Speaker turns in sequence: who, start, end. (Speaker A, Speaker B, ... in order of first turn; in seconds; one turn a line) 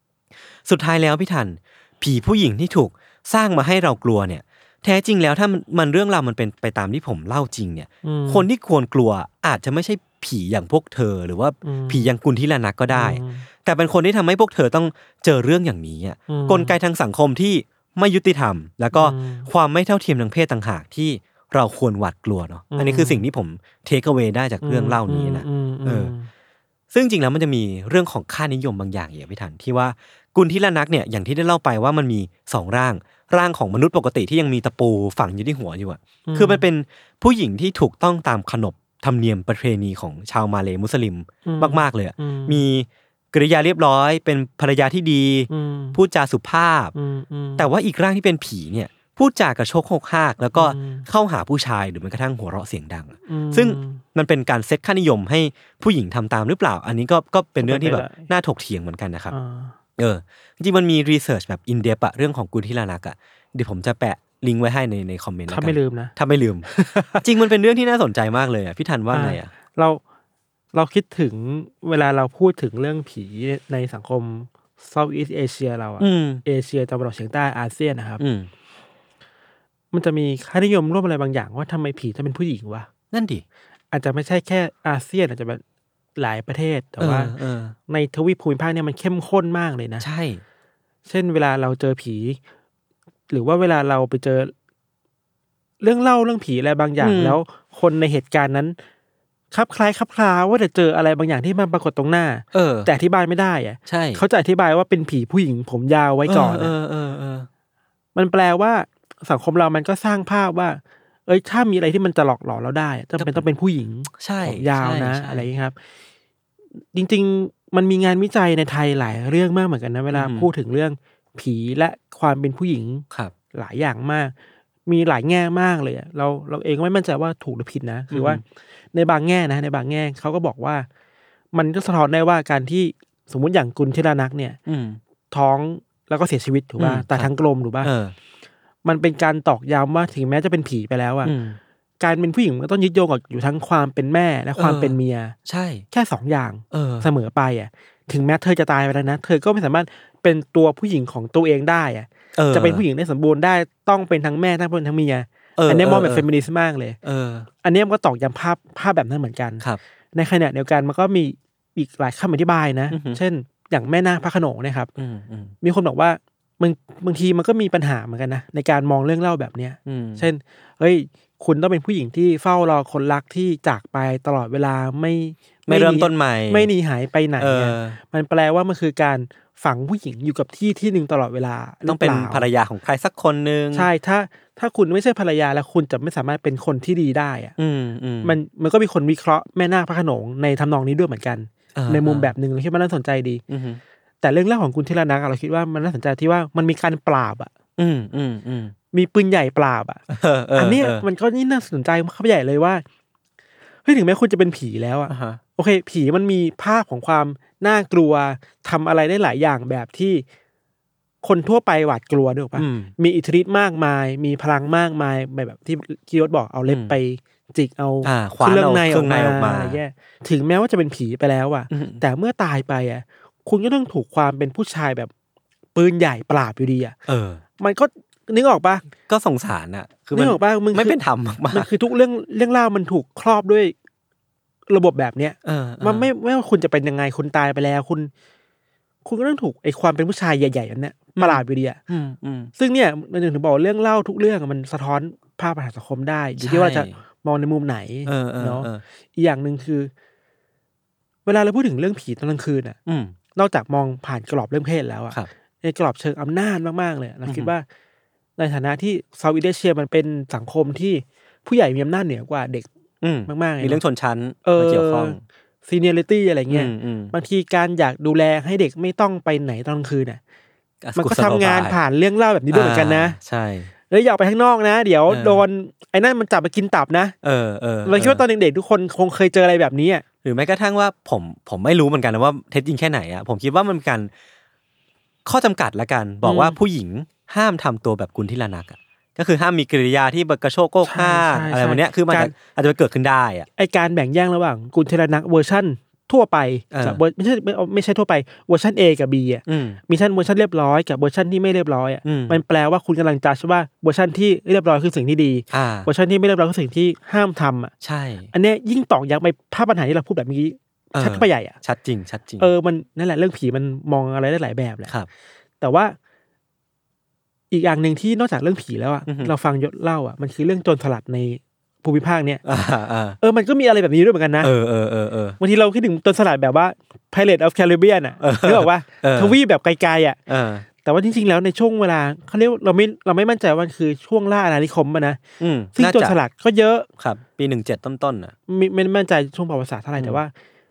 Speaker A: 0.6-26.1
Speaker B: 8.0-8.5
Speaker B: 11.6-12.1
Speaker B: 12.9-13.4
Speaker B: 16.3-16.8
Speaker B: 18.9-19.5
Speaker B: 22.7-23.2
Speaker B: 24.6-26.3
Speaker A: 26.9-46.9
Speaker B: 36.3-36.6
Speaker B: 41.4-42.6
Speaker B: 45.5-46.0
Speaker B: 46.9-47.7
Speaker A: 47.6-59.3
Speaker B: 50.5-51.1
Speaker B: 53.3-54.0
Speaker B: 57.6-58.3
Speaker B: 59.3-59.7
Speaker A: 60.0-66.7
Speaker B: 65.5-66.1
Speaker B: 66.7-67.2
Speaker A: 67.2-69.5
Speaker B: 69.1-70.0
Speaker B: 70.7-78.2
Speaker A: 76.0-76.4
Speaker A: 78.2-78.5
Speaker B: 79.9-82.9
Speaker A: 83.1-83.4
Speaker B: 83.9-85.6
Speaker B: 86.2-87.3
Speaker A: 87.0-87.8
Speaker B: 87.9-90.0
Speaker A: 90.0-90.4
Speaker B: 91.1-92.4
Speaker B: 93.3-94.5
Speaker B: 95.8-98.8
Speaker A: 97.0-97.4
Speaker B: 99.5-106.7
Speaker A: 102.5-102.9
Speaker A: 103.9-104.2
Speaker A: 106.3-107.5
Speaker B: 108.2-115.8
Speaker A: 113.2-113.4
Speaker A: 114.1-115.5
Speaker B: 116.9-124.3
Speaker A: 120.1-120.5
Speaker B: 124.8-128.4
Speaker A: 128.1-128.4
Speaker B: 128.9-130.9
Speaker B: 131.5-134.6
Speaker A: 134.7-135.0
Speaker B: 135.3-137.9
Speaker A: 136.8-137.3
Speaker A: 137.8-138.1
Speaker B: 138.8-141.3
Speaker A: 141.2-141.6
Speaker B: 142.0-145.3
Speaker A: 144.6-145.8
Speaker B: 145.9-157.0
Speaker A: 146.7-147.1
Speaker A: 152.3-152.8
Speaker A: 155.6-156.3
Speaker A: 157.0-157.5
Speaker B: 157.6-164.9
Speaker A: 162.9-163.2
Speaker A: 165.0-165.5
Speaker B: 165.6-182.4
Speaker A: 169.8-170.2
Speaker A: 175.7-176.7
Speaker A: 177.4-178.0
Speaker A: 181.8-183.9
Speaker B: 183.7-187.5
Speaker A: 187.6-188.4
Speaker B: 188.2-193.4
Speaker A: 191.7-192.3
Speaker A: 193.5-193.8
Speaker B: 194.2-197.5
Speaker A: 197.8-198.7
Speaker B: 198.9-200.0
Speaker A: 200.1-201.0
Speaker B: 200.5-202.8
Speaker B: 203.8-210.2
Speaker A: 205.1-205.4
Speaker B: 211.2-225.1
Speaker A: 212.6-212.9
Speaker A: 216.7-216.9
Speaker A: 218.0-219.8
Speaker A: 221.7-222.0
Speaker B: 225.7-226.9
Speaker A: 227.1-227.4
Speaker B: 227.6-228.8
Speaker A: 229.1-231.7
Speaker B: 230.1-231.0
Speaker B: 231.5-233.7
Speaker B: 234.7-238.1
Speaker A: 235.4-236.1
Speaker B: 239.0-241.8
Speaker A: 241.2-242.5
Speaker B: 242.6-249.9
Speaker A: 246.4-247.0
Speaker A: 248.1-248.8
Speaker B: 251.2-252.8
Speaker A: 252.8-253.2
Speaker B: 253.3-257.6
Speaker A: 257.3-257.5
Speaker B: 258.4-262.7
Speaker A: 263.0-265.2
Speaker B: 263.3-263.8
Speaker B: 264.4-270.2
Speaker A: 266.5-267.1
Speaker A: 270.8-271.8
Speaker B: 270.9-273.1
Speaker A: 272.5-273.7
Speaker B: 273.9-277.1
Speaker A: 275.1-275.4
Speaker A: 277.2-278.2
Speaker B: 277.8-280.0
Speaker A: 280.2-284.1
Speaker A: 285.2-293.5
Speaker B: 286.2-286.6
Speaker B: 290.8-292.3
Speaker B: 293.6-307.7
Speaker A: 296.7-297.0
Speaker A: 299.5-299.8
Speaker A: 302.0-302.4
Speaker A: 305.5-305.9
Speaker A: 307.8-308.3
Speaker B: 308.3-311.6
Speaker A: 310.9-312.5
Speaker B: 312.4-314.9
Speaker B: 315.6-315.9
Speaker B: 317.5-322.4
Speaker A: 319.1-319.3
Speaker A: 322.4-323.2
Speaker B: 323.2-324.5
Speaker A: 324.4-325.4
Speaker B: 325.4-330.2
Speaker A: 328.2-329.4
Speaker A: 330.3-330.6
Speaker B: 330.8-335.2
Speaker A: 335.4-336.2
Speaker B: 335.7-336.9
Speaker A: 337.0-338.3
Speaker B: 338.5-340.3